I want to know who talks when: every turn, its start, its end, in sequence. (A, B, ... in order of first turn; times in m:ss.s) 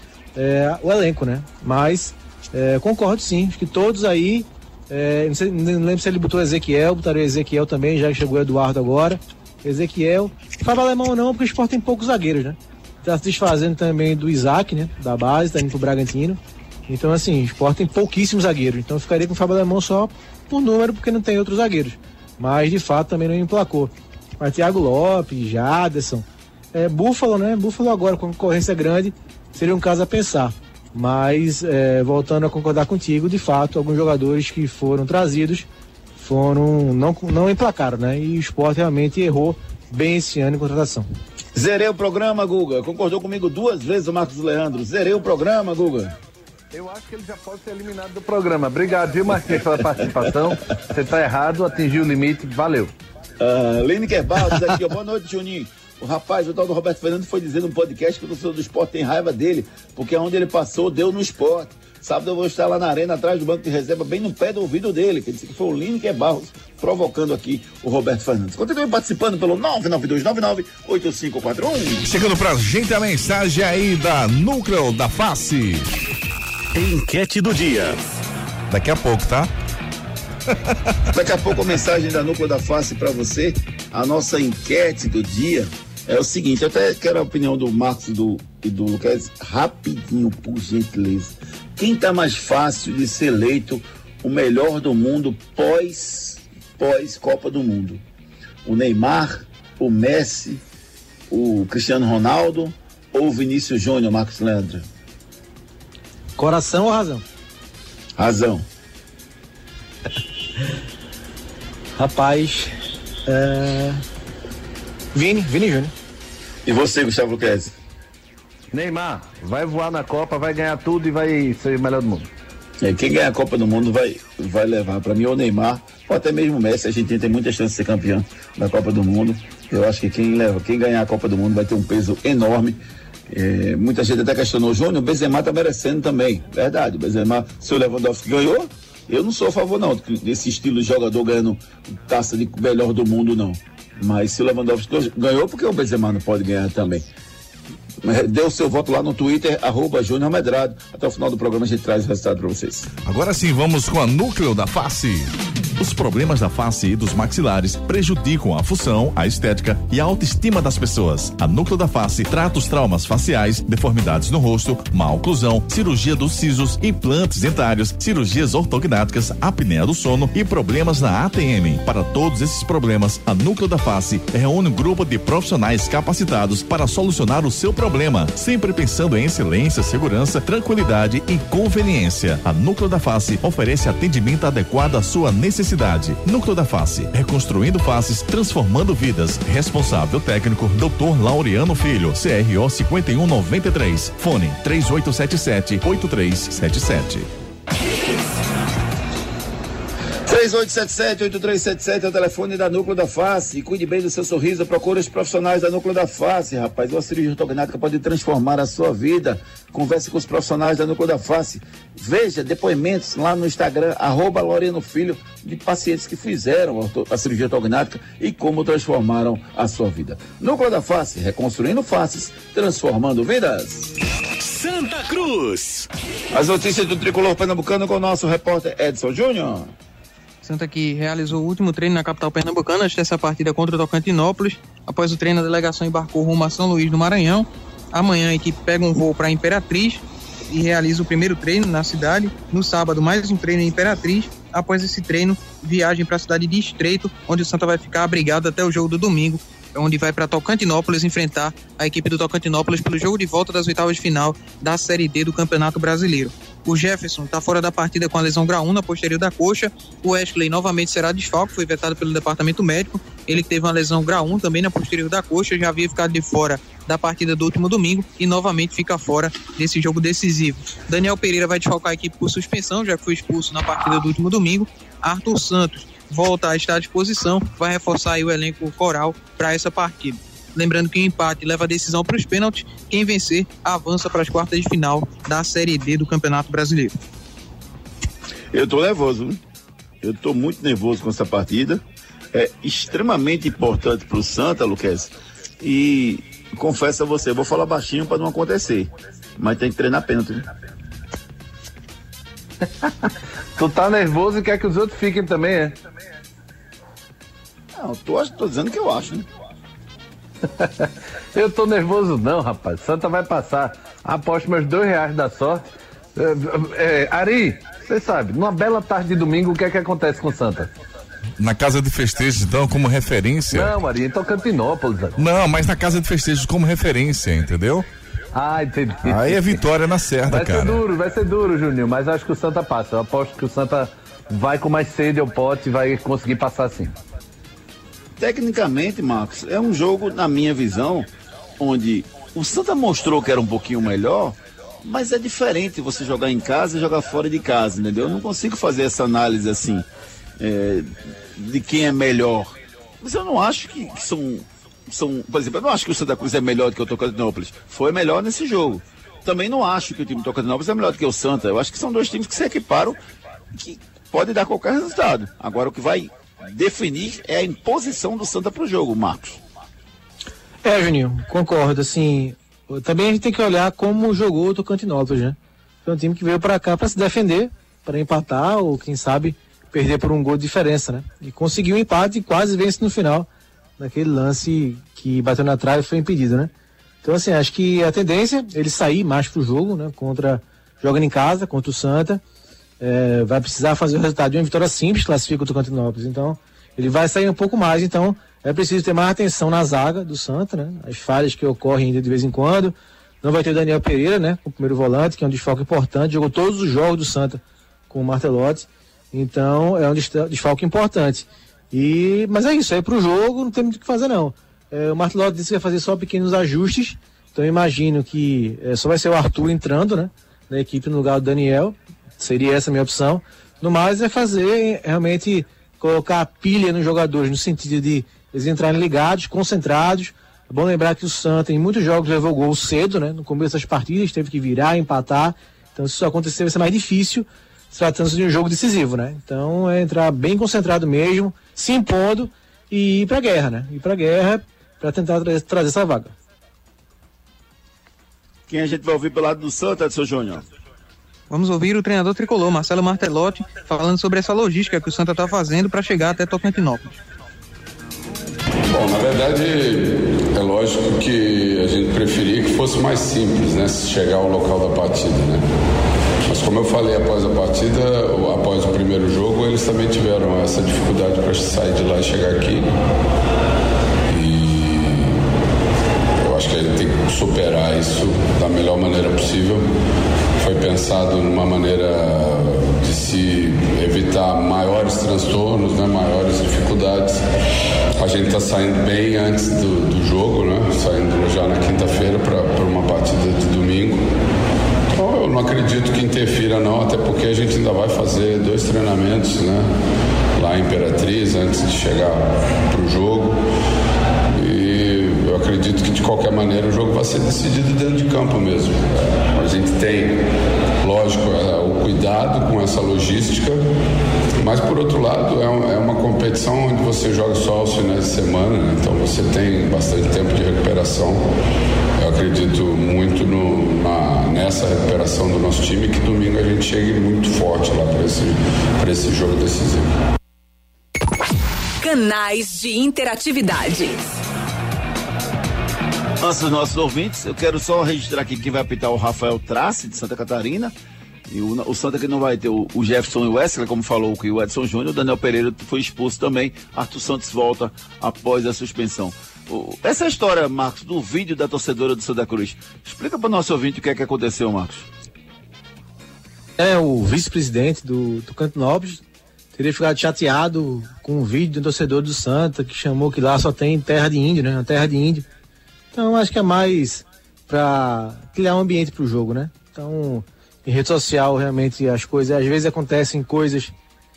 0:00.4-0:41.1 A
0:41.6-0:46.2 B
0:46.7-0:52.9 C
0:53.4-1:12.0 B
1:12.1-1:15.9 D
1:16.8-1:18.0 E
1:18.7-1:19.5 D
1:21.1-1:38.0 B
1:38.6-1:40.6 B
1:41.3-1:44.9 B
1:46.4-1:47.2 A
1:48.2-1:48.6 B
1:52.0-1:52.7 A
1:53.3-1:54.0 A
1:55.1-1:55.9 A
1:56.7-1:57.7 B
1:58.7-2:02.3 C
2:02.8-2:27.1 B
2:28.0-2:32.9 B
2:33.0-3:17.3 D
3:20.3-3:43.9 B
3:44.4-3:45.9 E
3:46.3-3:49.7 B
3:50.4-4:47.0 F
4:48.5-4:49.4 B
4:50.0-4:51.8 B
4:52.3-5:00.5 B
5:02.6-5:05.8 C
5:07.8-5:09.3 B
5:10.4-5:20.7 C
5:21.4-5:23.7 D
5:23.5-5:25.2 C
5:25.2-5:27.9 D
5:28.3-5:29.6 C
5:29.1-5:30.8 D
5:30.2-5:37.0 C
5:38.2-5:49.8 B
5:50.4-6:03.0 B
6:03.5-6:09.4 B
6:10.6-6:26.5 A
6:27.0-6:32.2 A
6:32.8-7:26.2 A
7:28.5-7:30.5 B
7:31.3-7:37.0 F
7:38.7-7:45.4 G
7:46.2-7:52.7 G
7:54.1-7:55.2 G
7:56.2-7:59.7 G
8:00.4-8:07.2 G
8:08.0-8:14.1 G
8:15.0-8:19.7 G
8:20.4-8:23.4 G
8:24.3-8:30.3 G
8:30.8-8:33.6 G
8:34.4-8:41.3 G
8:42.0-8:49.9 G
8:51.8-8:54.0 H
8:56.2-9:00.7 B
9:01.3-9:14.9 B
9:16.6-9:19.0 A
9:19.5-9:25.3 A
9:25.9-9:33.7 A